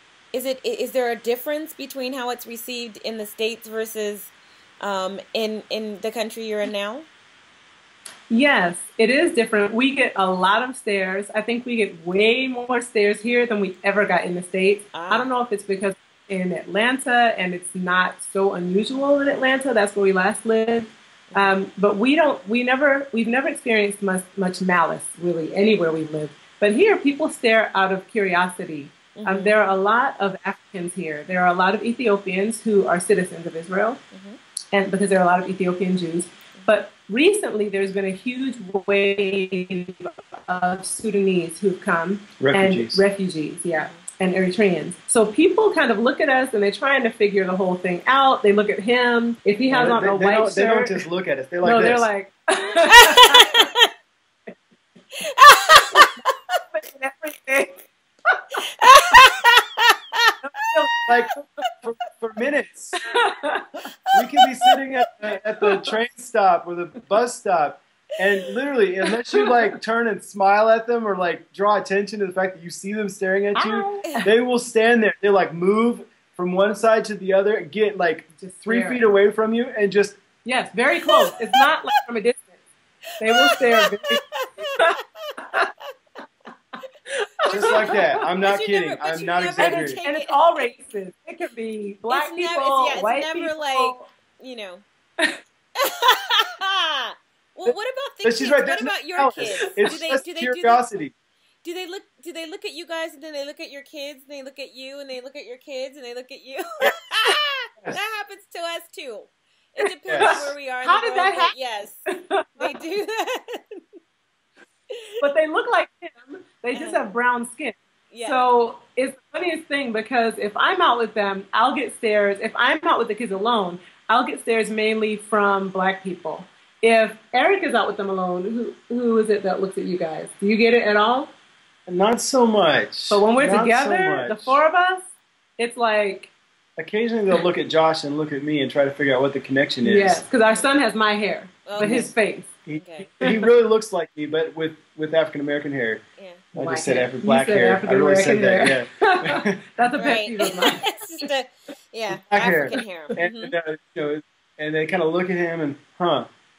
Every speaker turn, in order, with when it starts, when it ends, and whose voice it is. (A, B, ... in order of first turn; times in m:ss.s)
0:00.3-0:07.1 A
0:08.3-0:34.0 B
0:14.9-0:15.2 A
0:21.3-0:21.5 A
0:29.1-0:29.5 A
0:34.1-0:34.4 A
0:34.7-0:51.0 B
0:42.4-0:43.0 C
0:49.7-0:52.1 C
0:51.6-0:53.7 B
0:52.9-0:53.9 A
0:55.2-0:56.2 A
0:56.0-0:57.9 B
0:58.8-1:00.3 A
1:00.4-1:01.1 B
1:01.1-1:03.0 C
1:03.0-1:03.8 B
1:04.1-1:20.2 C
1:05.6-1:05.9 B
1:09.3-1:09.5 B
1:13.5-1:14.2 B
1:18.4-1:19.1 B
1:20.4-1:22.6 B
1:21.0-1:21.6 A
1:23.2-1:25.0 B
1:23.2-1:25.7 A
1:27.4-1:28.0 B
1:27.5-1:30.6 A
1:27.5-1:30.0 C
1:29.6-1:34.1 B
1:32.1-1:34.8 A
1:35.8-1:40.8 A
1:38.2-1:41.1 C
1:39.5-1:39.9 B
1:41.6-1:52.0 A
1:50.1-1:50.5 C
1:50.2-1:51.5 B
1:52.2-1:52.7 B
1:52.6-1:53.8 A
1:55.2-2:11.3 B
1:56.7-1:57.0 A
1:58.1-1:58.4 A
2:11.9-2:14.6 C
2:13.1-2:16.3 B
2:16.8-2:20.2 C
2:19.8-2:22.5 B
2:21.6-2:22.1 A
2:21.8-2:22.1 C
2:22.6-2:26.0 C
2:22.8-2:23.1 A
2:26.2-2:26.4 A
2:26.5-2:31.3 B
2:26.5-2:29.6 C
2:30.0-2:33.5 A
2:32.1-2:36.3 C